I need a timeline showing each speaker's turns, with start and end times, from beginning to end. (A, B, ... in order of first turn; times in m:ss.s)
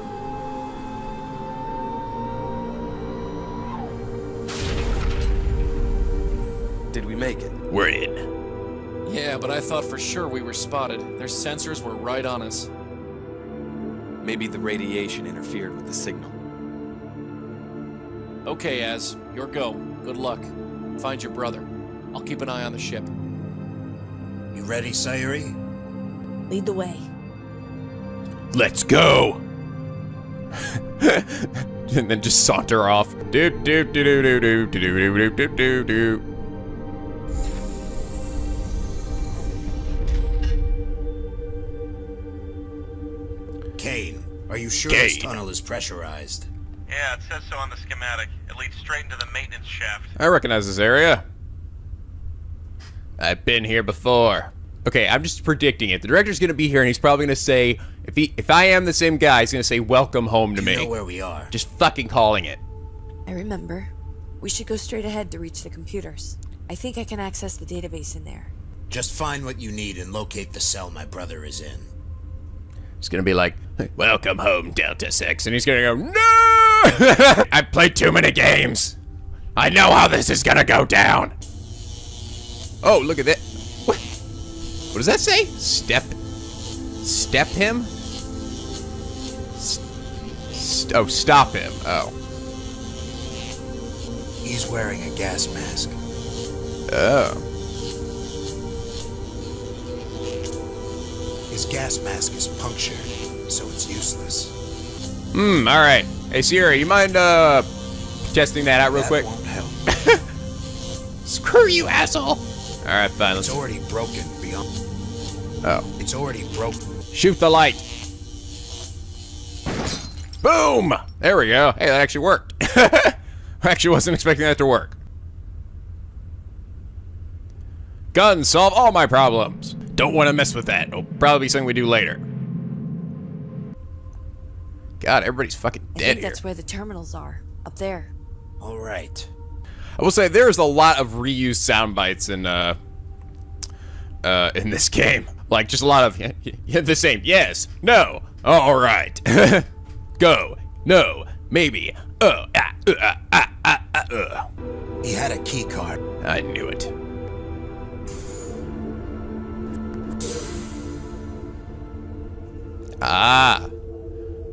0:06.9-0:07.6 A
0:07.7-0:08.2 B
0:09.0-0:12.7 C
0:14.2-0:16.4 A
0:18.4-0:23.1 C
0:24.5-0:25.6 D
0:26.5-0:27.1 E
0:28.5-0:29.4 B
0:30.6-0:36.2 B
0:43.8-0:46.5 D
0:44.9-0:45.4 B
0:46.9-0:50.1 F
0:50.2-0:51.2 B
0:53.2-1:00.9 B
1:00.5-1:01.5 D
1:01.5-1:02.6 B
1:03.3-1:08.5 E
1:08.9-1:11.9 D
1:13.0-1:19.0 B
1:19.6-1:21.3 B
1:22.8-1:24.0 B
1:24.9-1:26.2 B
1:27.0-1:27.9 B
1:30.5-1:32.1 B
1:34.4-1:36.0 D
1:36.9-1:37.4 B
1:41.5-1:44.5 D
1:45.3-1:47.7 B
1:48.3-1:49.3 B
1:48.9-1:49.8 D
1:49.9-1:50.2 B
1:51.2-1:53.6 B
1:53.3-1:54.7 D
1:56.0-1:56.8 D
1:57.1-1:57.8 B
2:00.4-2:05.0 B
2:08.1-2:12.2 B
2:15.0-2:16.4 B
2:15.9-2:18.1 E
2:18.6-2:19.3 D
2:20.0-2:22.8 B
2:24.2-2:29.7 B
2:30.2-2:34.4 B
2:35.0-2:36.0 D
2:36.2-2:36.9 B
2:43.0-2:43.7 B